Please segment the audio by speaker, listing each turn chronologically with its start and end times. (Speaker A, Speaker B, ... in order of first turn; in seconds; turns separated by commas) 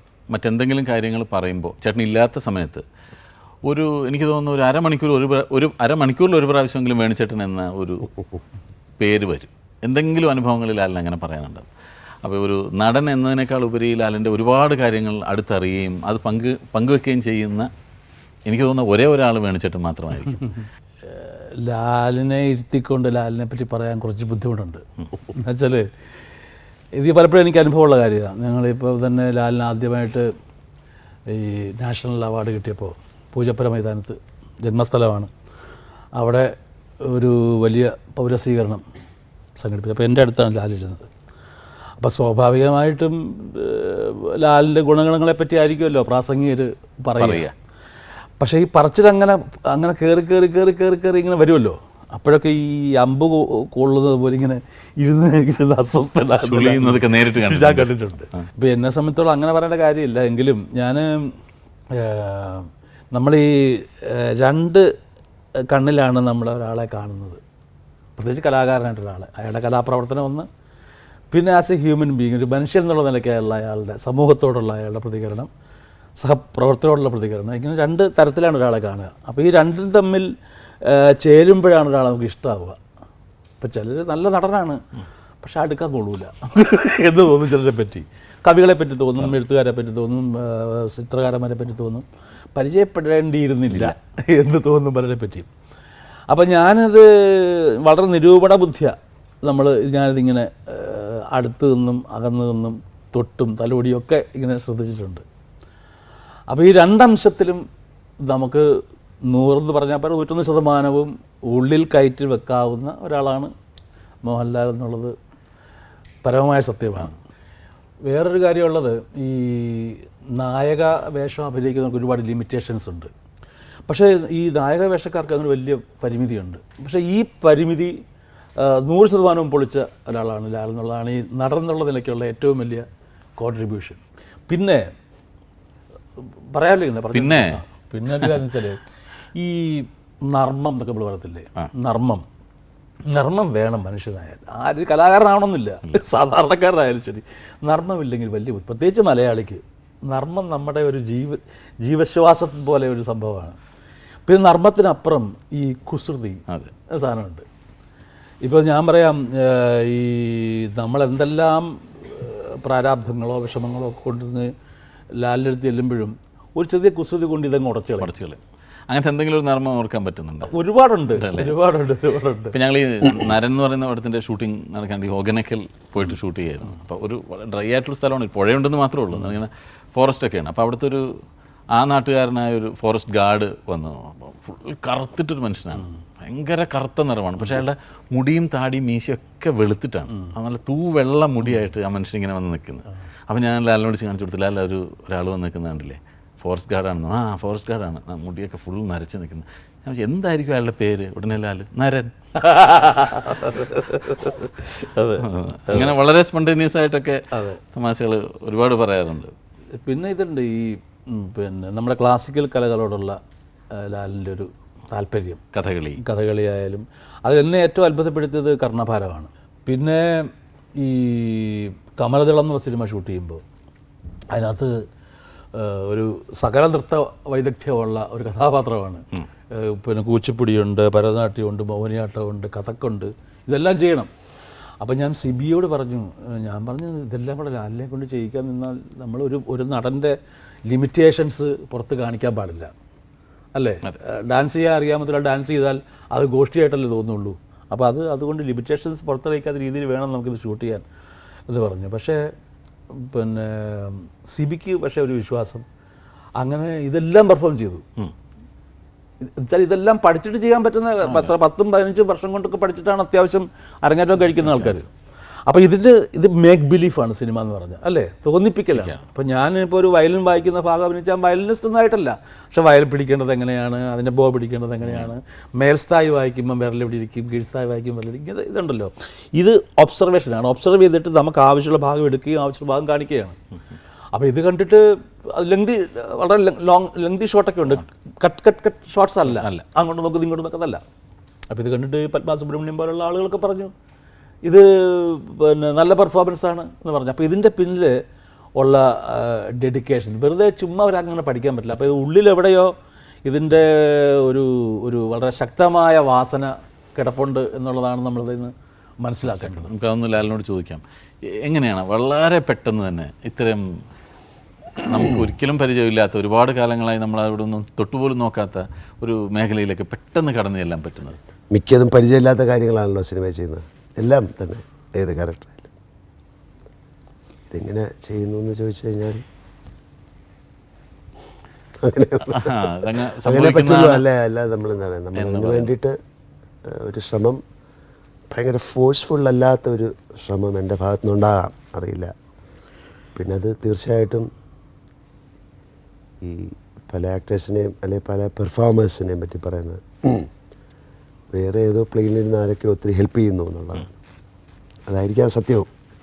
Speaker A: 0.3-2.8, Speaker A: 3.7-8.1, Speaker A: 9.0-11.7, Speaker A: 12.2-17.7, Speaker A: 18.5-20.5, Speaker B: 21.0-25.9, Speaker B: 27.0-30.3, Speaker B: 31.3-35.3, Speaker B: 36.2-36.5, Speaker B: 37.0-38.8, Speaker B: 39.6-41.1, Speaker B: 42.0-47.5, Speaker A: 47.2-47.5, Speaker B: 48.4-61.3, Speaker A: 56.4-58.5, Speaker B: 61.9-64.8, Speaker B: 65.7-67.4, Speaker B: 68.2-70.5, Speaker B: 71.3-75.5, Speaker B: 76.2-80.3, Speaker B: 80.8-82.8, Speaker B: 83.6-84.8, Speaker B: 85.4-95.5, Speaker B: 96.3-105.2, Speaker B: 106.5-107.6, Speaker B: 108.2-108.7, Speaker B: 109.3-113.5, Speaker B: 114.2-115.1, Speaker B: 116.2-117.2, Speaker B: 118.1-123.1, Speaker B: 123.9-128.0, Speaker B: 128.6-132.9, Speaker B: 133.4-134.8, Speaker B: 136.2-138.8, Speaker A: 137.1-137.6, Speaker B: 139.3-142.2, Speaker B: 143.1-153.6, Speaker B: 154.3-157.4, Speaker B: 158.4-164.5, Speaker B: 165.2-168.1, Speaker A: 168.0-170.5, Speaker B: 170.5-172.6, Speaker A: 171.2-171.6, Speaker A: 172.5-181.1, Speaker A: 181.8-202.1, Speaker B: 202.4-205.9, Speaker A: 205.2-207.2, Speaker B: 207.3-207.6, Speaker A: 207.7-209.3, Speaker B: 209.8-213.2, Speaker B: 213.7-215.4, Speaker A: 215.5-216.0, Speaker B: 216.0-223.4, Speaker B: 224.3-224.7, Speaker B: 225.5-234.1, Speaker B: 234.8-240.2, Speaker B: 240.7-242.7, Speaker B: 243.6-250.8, Speaker B: 251.5-252.2, Speaker B: 252.9-255.7, Speaker B: 256.4-257.8, Speaker B: 259.2-264.9, Speaker A: 261.0-261.3, Speaker A: 264.3-264.8, Speaker B: 265.5-283.4, Speaker A: 274.8-275.1, Speaker B: 284.1-290.8, Speaker A: 289.2-289.6, Speaker B: 291.5-293.7, Speaker B: 294.4-298.0, Speaker B: 298.6-302.7, Speaker B: 303.3-309.7, Speaker A: 309.3-313.6, Speaker A: 314.8-321.2, Speaker C: 321.5-325.7, Speaker C: 327.5-329.2, Speaker C: 331.8-336.0, Speaker A: 332.3-334.0, Speaker A: 335.2-335.7, Speaker C: 336.7-337.4, Speaker C: 338.3-342.1, Speaker C: 343.2-344.3, Speaker C: 346.2-350.3, Speaker C: 351.3-353.9, Speaker C: 354.9-355.7